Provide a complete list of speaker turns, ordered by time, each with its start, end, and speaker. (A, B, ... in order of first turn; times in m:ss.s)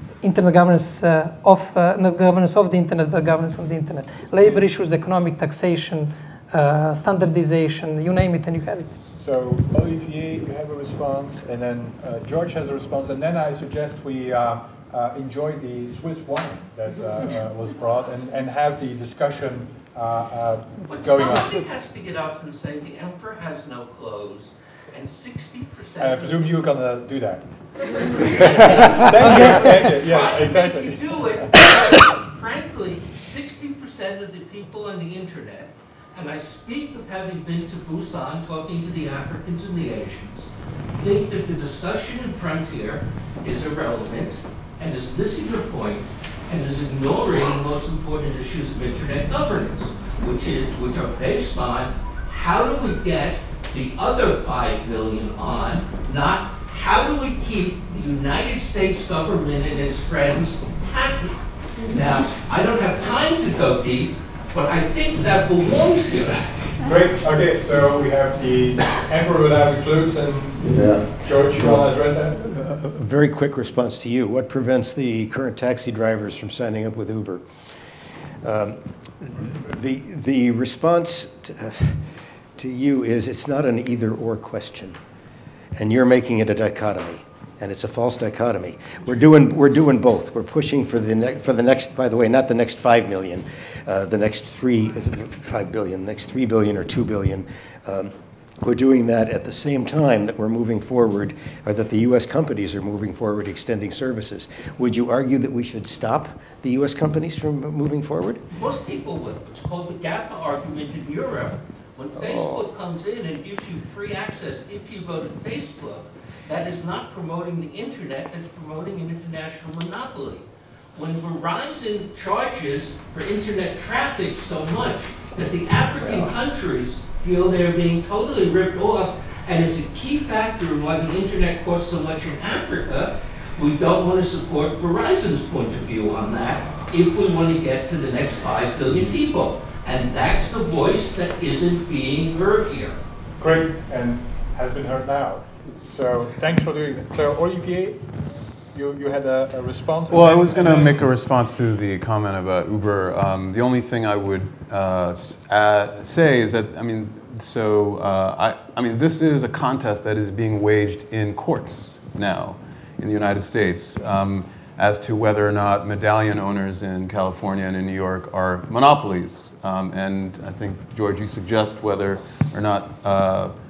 0:00.2-0:09.0 A
0:09.2-0:21.6 B
0:20.8-0:26.7 C
0:26.0-0:31.5 B
0:27.8-1:06.4 C
0:29.2-0:29.8 A
1:06.5-1:12.4 B
1:10.6-1:17.5 D
1:18.4-1:22.0 D
1:22.6-1:25.0 D
1:25.8-1:48.4 D
1:48.5-2:23.0 C
1:52.1-1:52.7 D
2:06.0-2:06.3 D
2:23.4-2:28.2 B
2:28.7-2:31.0 B
2:30.1-2:53.5 E